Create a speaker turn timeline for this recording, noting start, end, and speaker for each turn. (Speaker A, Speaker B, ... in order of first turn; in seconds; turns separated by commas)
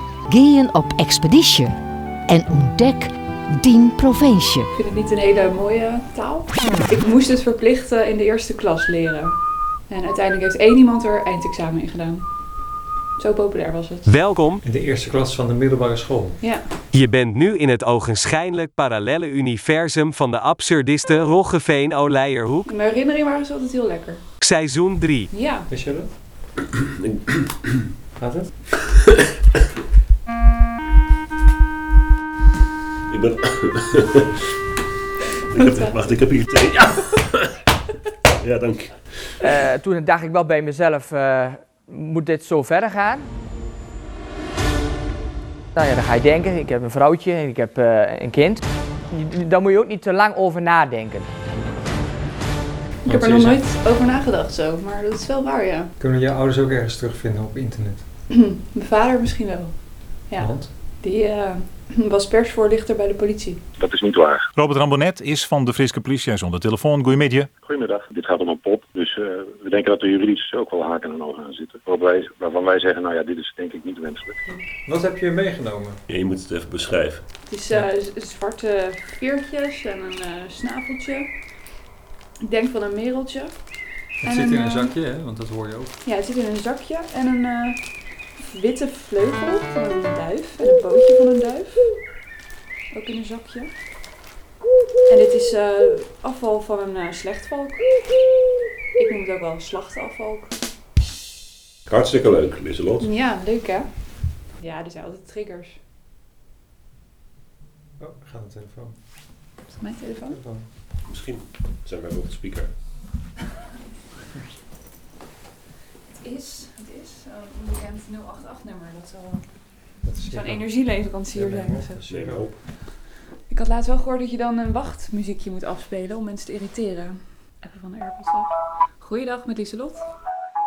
Speaker A: 0.3-1.7, Speaker A: 2.3-4.7, Speaker B: 4.7-12.3, Speaker B: 13.2-14.2, Speaker C: 14.1-14.6, Speaker D: 14.6-16.4, Speaker B: 16.4-16.6, Speaker C: 16.9-22.6, Speaker B: 22.6-24.2, Speaker C: 24.4-25.3, Speaker B: 25.3-25.7, Speaker D: 25.7-26.1, Speaker E: 27.0-27.7, Speaker D: 28.1-28.5, Speaker E: 33.1-34.3, Speaker E: 35.5-37.5, Speaker B: 35.5-36.0, Speaker E: 38.4-39.3, Speaker F: 39.4-43.3, Speaker F: 45.7-51.3, Speaker D: 53.0-53.6, Speaker B: 53.0-55.9, Speaker D: 56.0-58.0, Speaker B: 58.3-63.6, Speaker D: 60.4-60.7, Speaker G: 63.8-64.4, Speaker H: 64.5-67.5, Speaker G: 67.6-74.4, Speaker D: 74.5-76.0, Speaker E: 76.1-77.3, Speaker B: 77.5-81.3, Speaker B: 82.4-83.6, Speaker D: 84.2-85.9, Speaker B: 84.2-84.9, Speaker B: 86.0-92.0, Speaker B: 92.9-93.7, Speaker B: 95.1-97.9, Speaker B: 99.0-100.6, Speaker E: 101.9-103.1, Speaker B: 103.0-103.9, Speaker B: 104.6-105.8, Speaker D: 108.0-109.0, Speaker B: 109.7-110.4, Speaker D: 110.3-110.7, Speaker E: 111.1-112.7, Speaker B: 116.2-119.5, Speaker D: 120.0-122.5, Speaker B: 120.3-122.0, Speaker E: 122.1-122.5, Speaker B: 123.5-130.1